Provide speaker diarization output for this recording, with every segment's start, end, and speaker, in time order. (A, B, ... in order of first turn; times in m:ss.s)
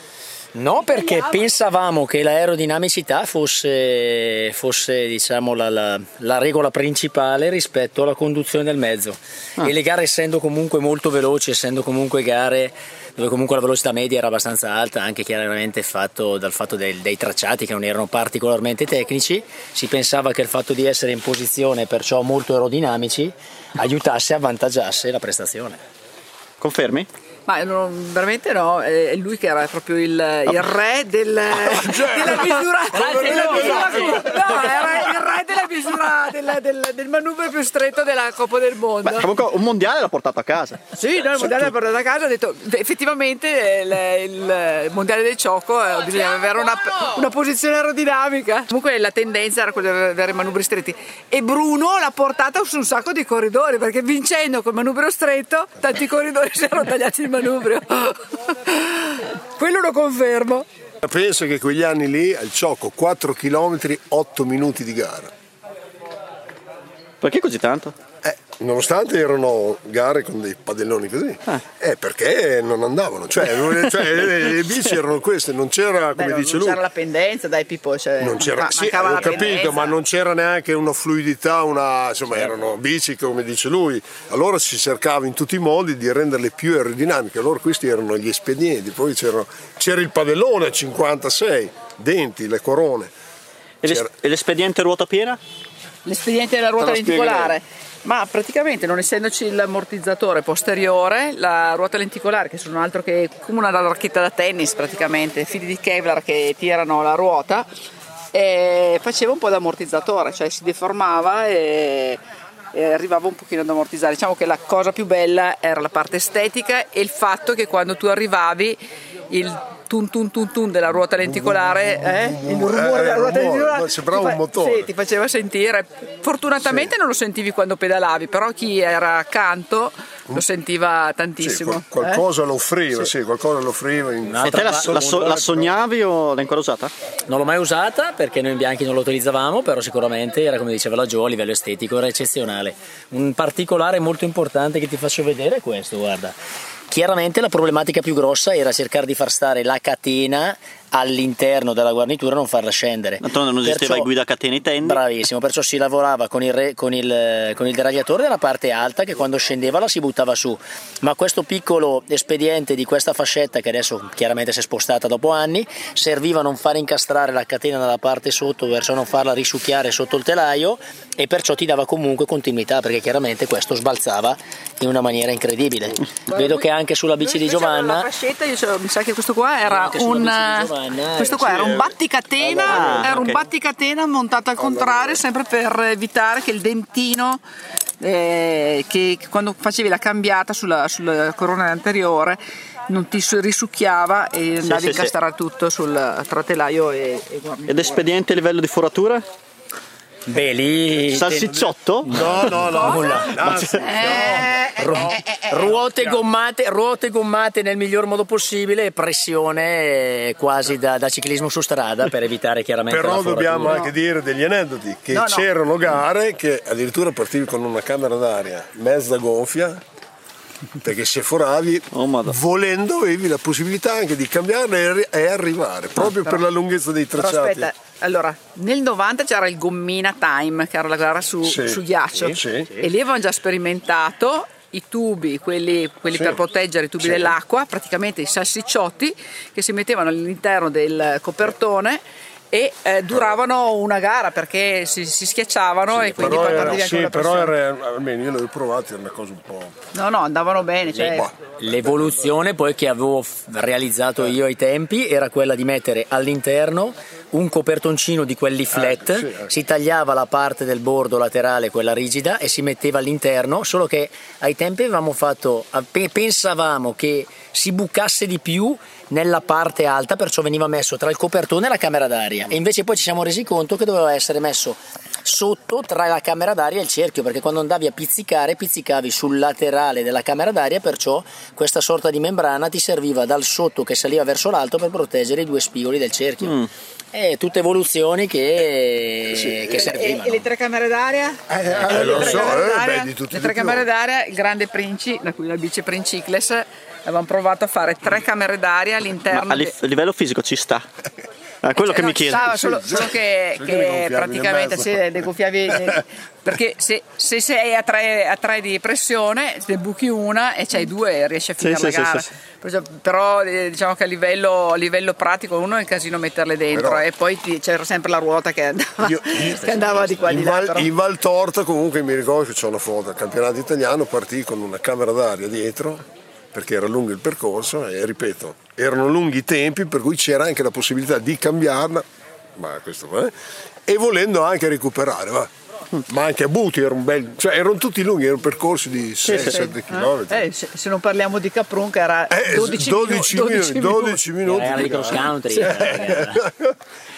0:00.5-0:25.8 A
0:26.6-0:27.1 B
0:27.5-0:39.2 C
0:31.5-0:34.4 D
0:32.9-0:34.2 A
0:39.0-0:40.8 B
0:40.9-1:00.6 C
0:41.4-0:41.7 B
1:01.0-1:05.3 D
1:07.2-1:07.9 B
1:08.2-1:16.8 D
1:16.2-1:19.9 C
1:18.2-1:33.1 D
1:33.8-1:35.4 B
1:36.0-1:47.7 C
1:36.8-1:37.5 B
1:48.3-1:52.2 C
1:52.7-1:58.8 C
1:59.3-2:12.2 C
2:01.2-2:04.9 D
2:06.6-2:06.9 D
2:11.4-2:15.8 D
2:14.2-2:14.9 A
2:14.4-2:16.9 B
2:17.3-2:26.3 A
2:26.9-2:34.1 A
2:33.2-2:35.0 B
2:34.8-2:58.1 A
2:56.3-2:56.6 C
2:57.2-3:07.4 C
2:59.6-3:01.8 A
3:01.4-3:01.9 D
3:02.4-3:03.0 D
3:02.6-3:03.4 B
3:04.6-3:05.2 D
3:08.0-3:12.4 C
3:12.9-3:18.0 C
3:14.6-3:15.1 B
3:17.7-3:19.2 B
3:20.3-3:23.4 A
3:21.1-3:22.1 B
3:22.1-3:25.0 D
3:23.4-3:23.8 B
3:23.8-3:25.8 C
3:24.6-3:33.8 A
3:32.9-3:39.8 D
3:33.6-3:33.9 C
3:35.1-3:35.4 C
3:40.8-3:47.7 D
3:41.9-3:42.4 B
3:46.0-3:46.4 C
3:47.1-4:07.5 C
3:51.4-3:52.7 D
3:57.0-3:57.3 D
4:05.9-4:09.8 D
4:06.0-4:06.8 A
4:09.9-4:11.3 C
4:10.9-4:11.3 D
4:11.0-4:50.4 A
4:18.7-4:19.5 D
4:46.4-4:46.7 B
4:49.3-4:49.6 D
4:49.7-4:59.7 C
4:51.5-4:53.8 D
4:59.3-5:00.8 B
5:01.6-5:02.4 B
5:01.8-5:20.9 C
5:02.3-5:06.0 D
5:11.6-5:12.3 B
5:16.7-5:17.0 D
5:19.0-5:32.0 D
5:19.6-5:20.2 A
5:32.6-5:33.3 D
5:33.9-5:35.5 D
5:36.1-5:40.4 D
5:39.2-5:39.6 B
5:39.4-5:44.2 C
5:42.3-5:46.7 D
5:44.4-5:46.4 A